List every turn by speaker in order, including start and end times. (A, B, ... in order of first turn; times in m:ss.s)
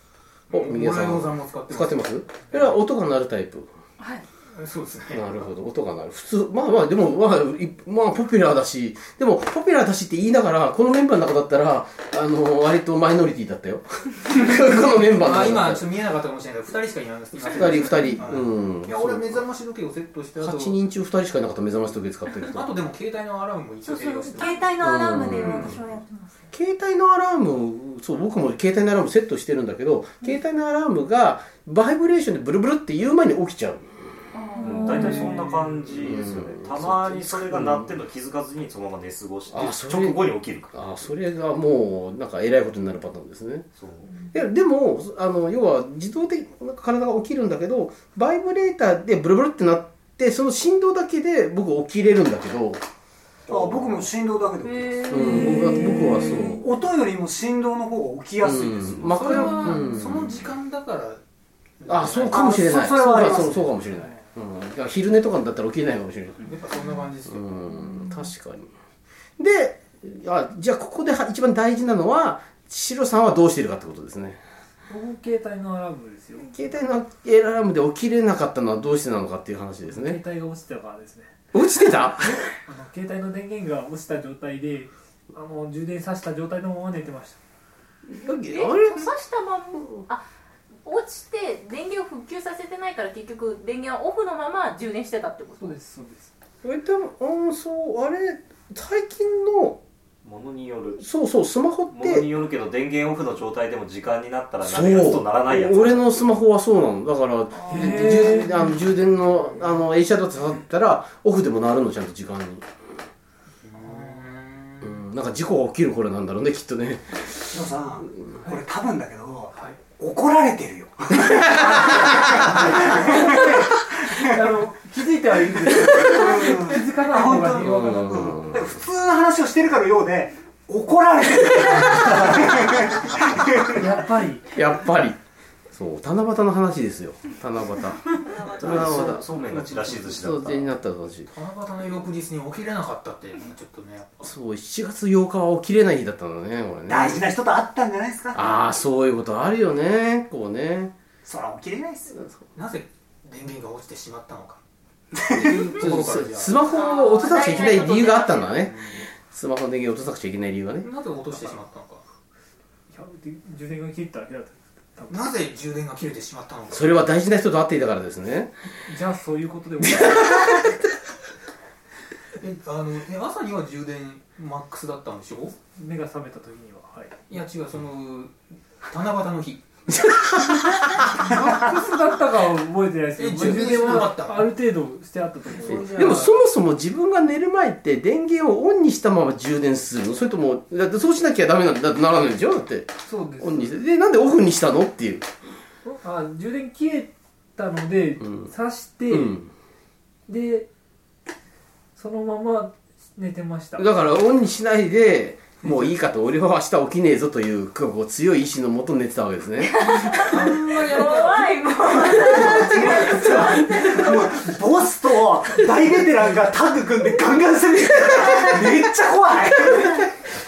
0:00.5-0:02.7 A
0:00.5-0:03.7 B
0:04.0-0:04.2 C
0:04.5-0:05.2 A
0:05.1-0:15.8 B
0:15.1-0:20.7 A
0:17.5-0:19.4 B
0:20.4-0:22.7 B
0:22.5-0:25.2 A
0:23.9-0:26.3 C
0:24.8-0:25.8 B
0:26.5-0:34.1 B
0:34.3-0:35.4 C
0:34.6-0:40.7 D
0:36.0-0:37.9 B
0:39.5-0:43.7 B
0:43.8-0:44.1 D
0:44.3-0:52.8 B
0:53.5-0:54.0 B
0:53.5-0:55.4 E
0:54.7-0:55.2 C
0:55.1-0:56.6 B
0:56.6-0:59.2 E
0:58.4-1:00.3 B
0:59.2-1:01.2 A
1:01.8-1:02.4 A
1:01.9-1:06.4 B
1:02.3-1:03.6 E
1:06.4-1:07.6 A
1:07.3-1:08.7 B
1:09.4-1:14.4 B
1:14.9-1:16.5 F
1:16.4-1:20.2 B
1:19.9-1:21.3 F
1:21.5-1:22.5 B
1:22.6-1:27.4 F
1:28.1-1:29.1 B
1:28.2-1:30.2 C
1:30.8-1:35.8 C
1:35.6-1:36.3 F
1:36.6-1:39.8 B
1:40.2-1:41.0 D
1:41.0-1:42.3 B
1:41.9-1:46.1 D
1:44.6-1:52.6 B
1:47.7-1:48.9 F
1:53.6-1:55.0 A
1:54.8-1:57.6 B
1:57.5-2:04.6 E
1:59.5-1:59.8 A
2:01.6-2:02.4 B
2:02.5-2:08.4 F
2:05.7-2:13.8 E
2:07.6-2:08.7 B
2:13.6-2:14.5 F
2:14.5-2:15.2 B
2:15.7-2:21.3 B
2:18.5-2:20.7 D
2:21.3-2:24.2 A
2:24.2-2:27.3 B
2:26.9-2:28.6 E
2:28.3-2:30.9 B
2:31.2-2:32.2 E
2:32.5-2:34.6 A
2:35.2-2:35.5 E
2:35.3-2:36.7 A
2:35.8-2:40.9 B
2:36.7-2:38.6 C
2:38.7-2:39.0 A
2:40.8-2:42.0 A
2:42.9-2:45.4 F
2:45.1-2:46.8 A
2:46.7-2:48.5 B
2:48.9-2:50.7 F
2:49.8-2:50.6 B
2:52.4-2:55.6 A
2:55.6-2:57.4 F
2:57.3-2:58.3 A
2:58.8-2:59.6 A
2:59.9-3:01.1 B
3:01.2-3:06.3 F
3:03.2-3:04.5 A
3:05.6-3:15.3 B
3:13.0-3:13.7 F
3:15.8-3:19.4 F
3:19.1-3:19.5 B
3:20.3-3:20.7 F
3:22.0-3:24.0 F
3:23.8-3:29.7 B
3:29.7-3:34.1 C
3:30.3-3:31.5 A
3:30.4-3:30.7 F
3:32.0-3:40.1 E
3:39.7-3:40.1 B